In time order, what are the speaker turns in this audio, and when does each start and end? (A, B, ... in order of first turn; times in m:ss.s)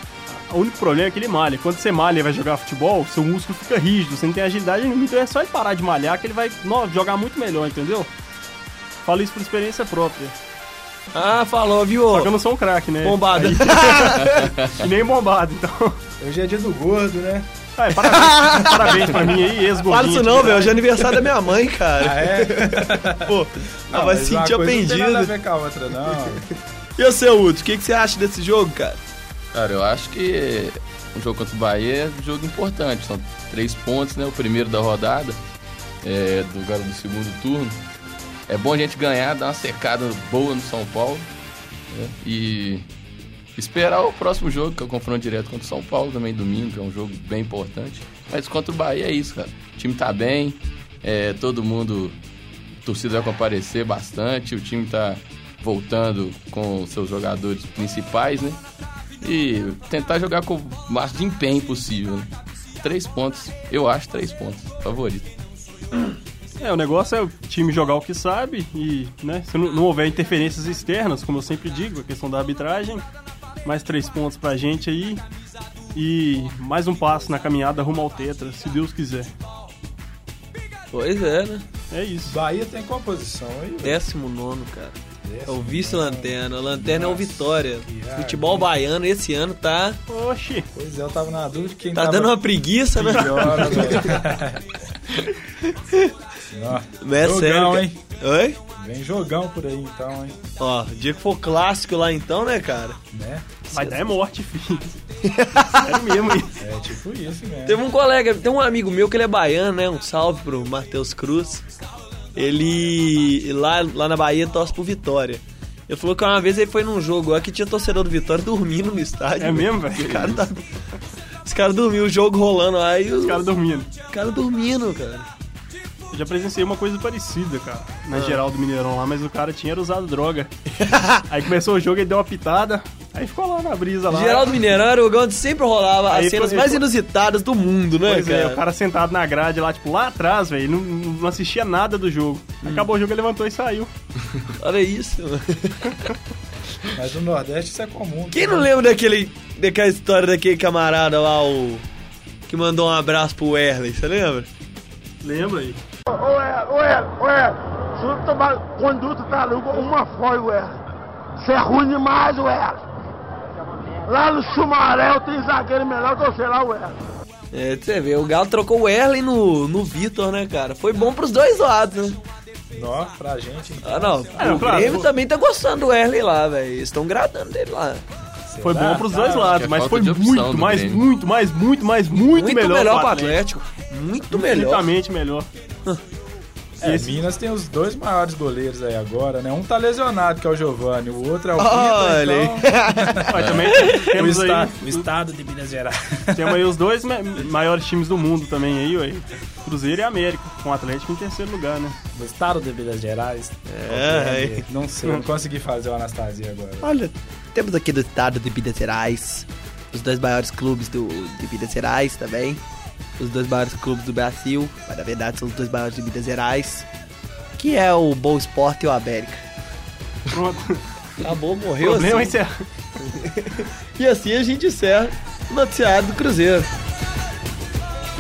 0:00.3-0:08.1 A
0:09.0-0:10.4 A
0:11.1-0:12.3 B
0:12.1-0:16.0 A
0:13.0-0:14.6 B
0:16.2-0:17.5 C
0:17.8-0:20.9 A
0:18.0-0:25.3 B
0:22.0-0:23.4 C
0:23.9-0:26.5 C
0:27.0-0:29.0 B
0:29.5-0:35.4 D
0:36.0-0:37.8 D
0:38.5-0:41.3 D
0:41.9-0:42.9 D
0:43.6-0:52.2 D
0:52.8-0:58.6 D
0:59.2-1:02.3 D
1:02.8-1:05.3 D
1:06.6-1:13.0 A
1:13.6-1:15.2 A
1:16.0-1:19.3 A
1:20.9-1:21.6 B
1:21.9-1:22.4 A
1:22.3-1:24.0 C
1:23.8-1:30.0 B
1:25.2-1:28.7 C
1:30.1-1:30.7 A
1:30.7-1:32.4 C
1:32.0-1:34.2 B
1:32.9-1:34.8 C
1:33.2-1:34.1 A
1:35.7-1:36.1 B
1:36.5-1:38.0 C
1:37.0-1:38.6 B
1:38.8-1:40.4 C
1:40.6-1:43.0 B
1:43.1-1:43.5 C
1:43.7-1:44.0 B
1:43.7-1:44.9 A
1:45.2-1:46.0 B
1:45.7-1:46.6 A
1:46.6-1:47.8 C
1:47.7-1:51.6 B
1:52.4-2:00.6 B
1:59.4-2:00.2 A
2:00.0-2:00.4 D
2:01.4-2:03.5 B
2:03.2-2:03.9 A
2:04.1-2:05.3 B
2:06.1-2:10.5 A
2:08.1-2:08.4 B
2:10.8-2:11.2 B
2:11.3-2:14.6 A
2:14.1-2:18.6 B
2:16.1-2:16.9 A
2:18.0-2:23.9 A
2:24.6-2:26.1 B
2:26.9-2:28.7 C
2:28.3-2:31.8 B
2:32.5-2:34.5 B
2:35.2-2:35.8 A
2:36.1-2:40.8 E
2:41.4-2:42.8 E
2:44.1-2:47.0 E
2:47.5-2:52.2 B
2:52.7-2:55.0 C
2:53.8-2:58.0 B
2:54.4-2:55.1 A
2:58.5-2:59.6 C
2:58.6-3:03.4 A
2:59.3-3:01.1 D
3:02.3-3:04.9 B
3:04.3-3:05.5 A
3:06.8-3:16.6 C
3:06.8-3:07.2 A
3:11.6-3:14.0 B
3:13.3-3:15.1 A
3:16.3-3:22.0 A
3:22.1-3:26.9 C
3:23.7-3:24.6 B
3:26.8-3:32.6 B
3:33.2-3:36.9 B
3:37.6-3:39.4 B
3:40.3-3:40.8 A
3:41.2-3:42.4 B
3:41.8-3:42.6 A
3:43.0-3:46.7 B